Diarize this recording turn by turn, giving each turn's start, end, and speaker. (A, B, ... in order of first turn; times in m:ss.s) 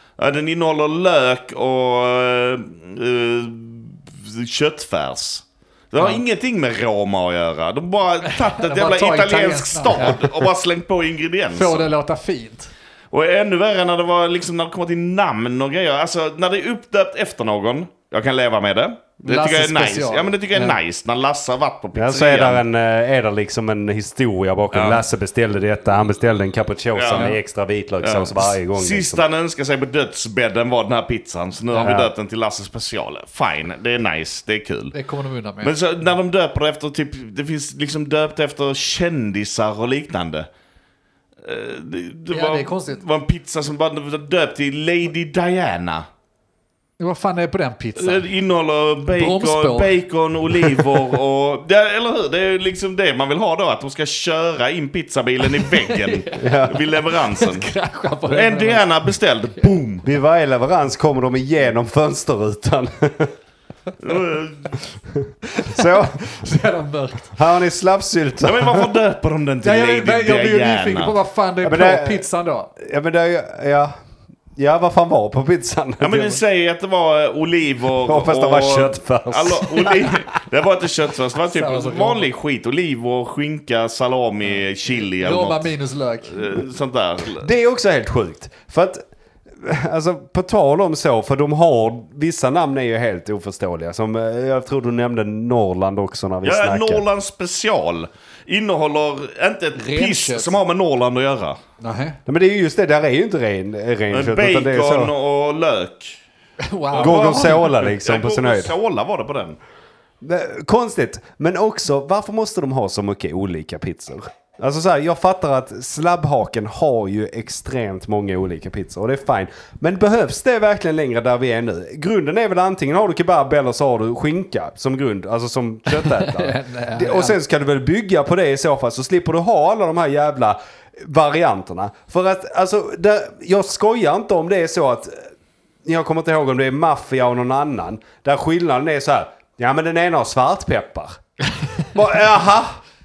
0:00.2-0:11.9 A
0:08.2-0:10.3 B
0:11.5-0:12.7 B
0:13.1-0:22.6 A
0:19.2-0:20.8 B
0:22.0-0:29.2 C
0:24.7-0:25.0 A
0:27.0-0:27.3 A
0:27.1-0:27.4 B
0:28.0-0:34.9 A
0:31.8-0:32.1 C
0:34.9-0:35.8 B
0:35.6-0:40.5 A
0:41.4-0:46.0 A
0:42.3-0:43.0 B
0:47.0-0:48.2 B
0:48.0-0:57.7 A
0:49.1-0:49.9 B
0:55.5-0:58.9 B
0:56.4-0:56.8 C
0:58.3-1:00.1 A
1:00.0-1:03.3 C
1:04.0-1:04.8 A
1:05.2-1:06.1 C
1:05.5-1:07.4 B
1:07.4-1:09.0 C
1:08.4-1:11.2 A
1:09.6-1:12.7 B
1:11.6-1:12.3 C
1:12.8-1:13.9 C
1:14.6-1:16.4 C
1:16.0-1:25.7 A
1:18.0-1:20.2 C
1:21.5-1:22.3 B
1:24.9-1:26.6 B
1:26.3-1:27.5 A
1:27.4-1:37.0 C
1:36.4-1:41.6 A
1:39.8-1:40.6 B
1:41.8-1:42.2 B
1:42.3-1:45.1 C
1:44.1-1:46.2 A
1:46.6-1:47.7 B
1:46.9-1:49.6 A
1:47.0-1:48.7 C
1:50.2-2:15.2 C
2:05.9-2:07.4 B
2:15.8-2:21.2 C
2:21.5-2:21.9 B
2:21.9-2:22.8 C